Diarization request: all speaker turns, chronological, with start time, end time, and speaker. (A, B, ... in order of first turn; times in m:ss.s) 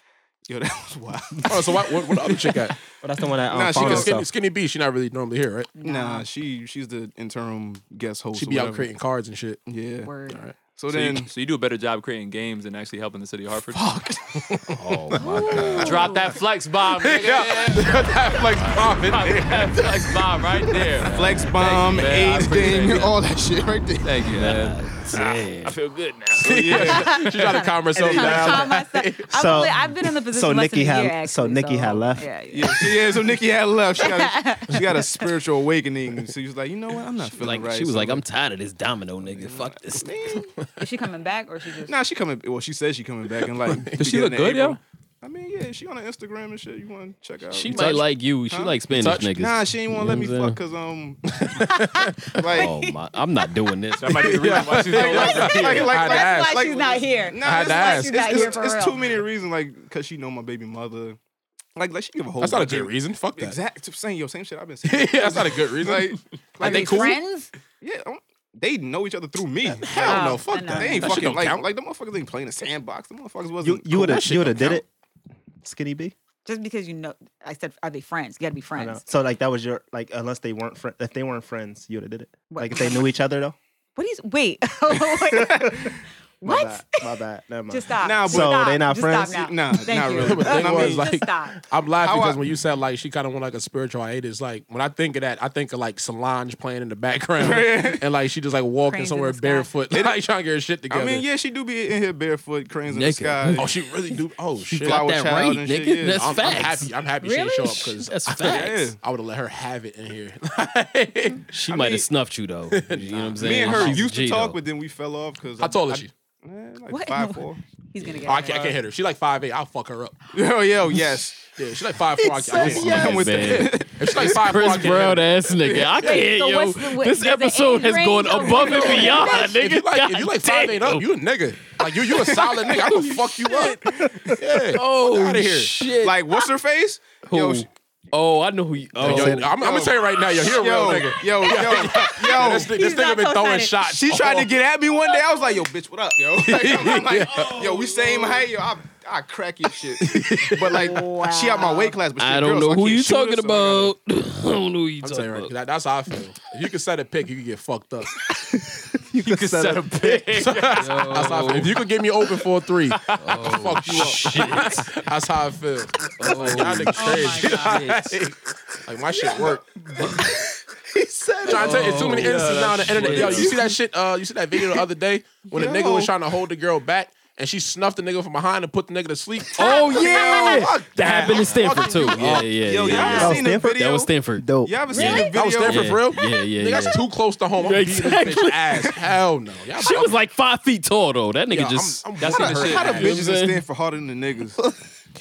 0:00.5-0:02.7 A
0:01.5-0:02.7 B
0:03.0-0:04.3 C
0:03.5-0:04.2 A
0:03.7-0:05.7 B
0:05.8-0:06.3 D
0:05.8-0:08.9 A
0:08.3-0:09.6 B
0:09.6-0:11.3 A
0:10.0-0:10.4 D
0:10.3-0:11.2 B
0:11.2-0:13.8 E
0:13.7-0:14.3 A
0:14.3-0:14.8 B
0:14.8-0:16.1 F
0:15.2-0:16.2 D
0:15.4-0:15.8 A
0:15.8-0:23.1 E
0:17.0-0:20.0 B
0:21.0-0:21.8 F
0:21.0-0:24.2 A
0:24.0-0:26.8 E
0:24.2-0:25.8 F
0:26.4-0:29.7 B
0:26.4-0:28.7 A
0:26.8-0:33.0 D
0:29.3-0:32.3 C
0:32.5-0:38.2 A
0:34.0-0:35.3 D
0:37.3-0:40.2 F
0:39.2-0:40.5 A
0:40.8-0:41.9 D
0:41.8-0:51.6 A
0:43.6-0:44.1 B
0:44.0-0:44.8 E
0:47.5-0:50.6 F
0:49.0-0:49.3 B
0:51.5-0:52.0 B
0:51.7-0:53.0 D
0:52.4-0:52.8 A
0:52.5-0:54.3 F
0:54.0-0:55.9 E
0:54.1-0:56.7 B
0:54.9-1:01.2 A
0:55.0-0:59.1 D
0:57.4-0:58.6 B
1:01.8-1:07.2 A
1:02.4-1:03.6 B
1:04.8-1:07.2 B
1:06.6-1:07.5 D
1:07.8-1:14.2 A
1:09.6-1:11.7 B
1:10.0-1:11.2 D
1:13.6-1:14.8 C
1:13.9-1:14.8 B
1:15.6-1:16.1 C
1:16.4-1:19.0 D
1:18.7-1:23.6 C
1:22.5-1:23.1 D
1:24.0-1:27.1 D
1:25.3-1:29.5 C
1:27.7-1:31.6 D
1:28.0-1:28.7 A
1:29.3-1:31.0 A
1:30.1-1:41.3 B
1:32.0-1:32.4 A
1:37.4-1:38.0 A
1:38.8-1:39.7 D
1:39.9-1:40.2 A
1:40.9-1:43.7 A
1:42.9-1:43.8 F
1:43.6-1:45.1 B
1:44.7-1:46.9 F
1:44.8-1:46.4 A
1:46.1-1:52.0 B
1:47.2-1:47.9 D
1:47.8-1:48.9 F
1:48.4-1:49.0 A
1:51.5-1:54.6 F
1:52.7-1:54.0 B
1:53.4-1:57.6 A
1:55.6-1:56.1 B
1:56.9-1:58.8 D
1:58.3-2:00.1 B
2:00.3-2:01.5 A
2:01.6-2:05.4 B
2:02.2-2:11.1 F
2:02.5-2:05.1 A
2:05.6-2:06.2 A
2:06.0-2:09.5 D
2:08.6-2:15.8 B
2:12.1-2:14.4 A
2:12.7-2:13.7 F
2:14.7-2:16.2 F
2:15.9-2:17.7 A
2:17.2-2:19.6 F
2:19.0-2:24.5 B
2:19.0-2:22.7 A
2:22.0-2:23.8 D
2:23.8-2:33.9 A
2:26.5-2:27.7 B
2:30.0-2:30.8 B
2:30.7-2:32.0 D
2:32.2-2:35.5 F
2:35.0-2:38.1 B
2:38.5-2:40.3 C
2:39.2-2:41.4 E
2:40.4-2:49.7 B
2:40.7-2:41.8 F
2:42.9-2:44.0 E
2:43.1-2:44.9 F
2:46.2-2:48.2 F
2:46.9-2:47.8 D
2:51.4-3:02.6 B
2:51.4-2:53.6 F
2:51.8-2:53.6 E
2:55.5-2:56.1 A
2:59.5-3:09.1 F
2:59.6-3:00.6 D
2:59.9-3:00.7 A
3:02.6-3:06.0 A
3:02.8-3:03.4 D
3:03.1-3:04.8 C
3:04.9-3:05.3 D
3:05.3-3:10.2 B
3:09.7-3:13.6 F
3:11.5-3:13.1 B
3:12.2-3:13.1 E
3:12.3-3:14.6 A